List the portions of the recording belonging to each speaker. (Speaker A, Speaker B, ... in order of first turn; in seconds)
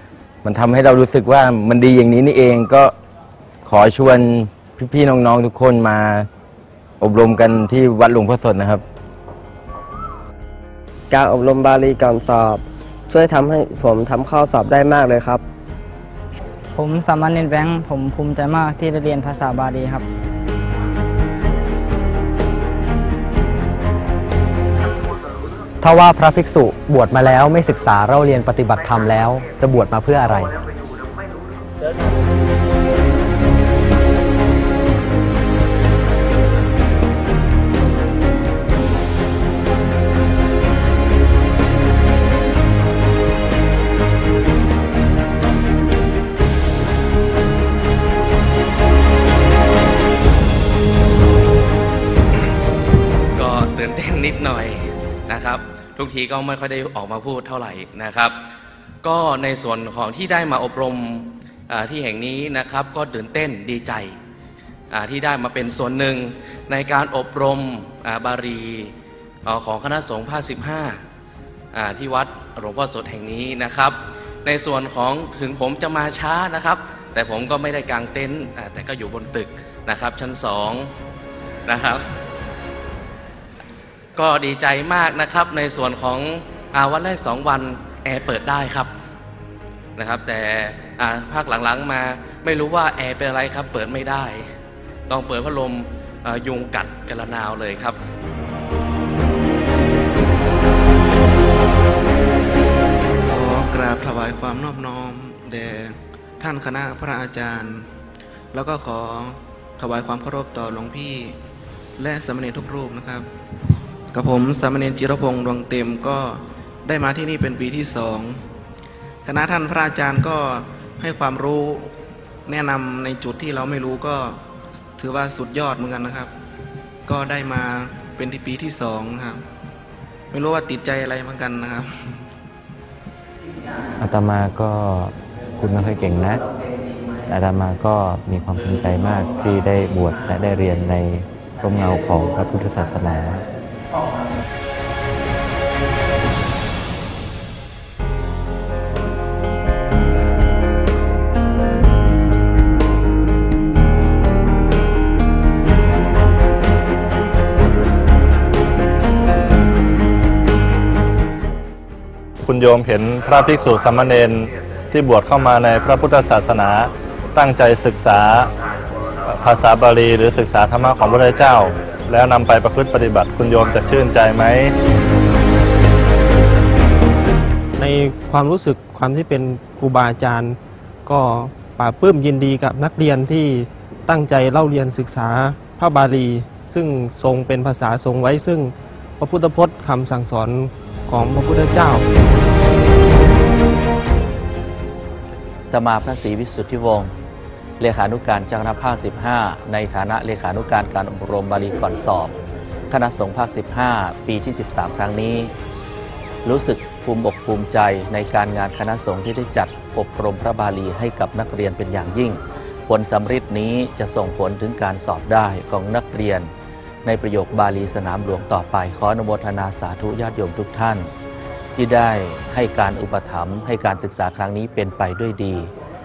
Speaker A: 0.4-2.9, 3.6-6.3, 7.0-8.8
Speaker B: 11.1-15.4
Speaker C: 16.8-20.0
Speaker D: 25.8-30.5
Speaker E: 53.4-58.3, 59.0-64.2, 64.9-68.9, 69.4-71.0, 71.7-80.9, 81.7-82.0, 84.1-88.9, 90.0-94.5, 95.1-98.0
Speaker F: 103.3-107.8, 108.5-111.3, 112.0-113.2, 114.1-118.4, 119.2-121.9, 122.5-124.4, 125.0-126.3, 127.1-129.4, 130.3-131.9
Speaker G: 134.0-136.4, 137.3-143.4
Speaker H: 162.4-168.5, 169.3-174.7
Speaker I: 177.8-192.1
Speaker J: 195.7-197.1, 197.8-202.3, 202.9-205.5, 206.4-216.5, 217.0-221.1, 221.8-225.7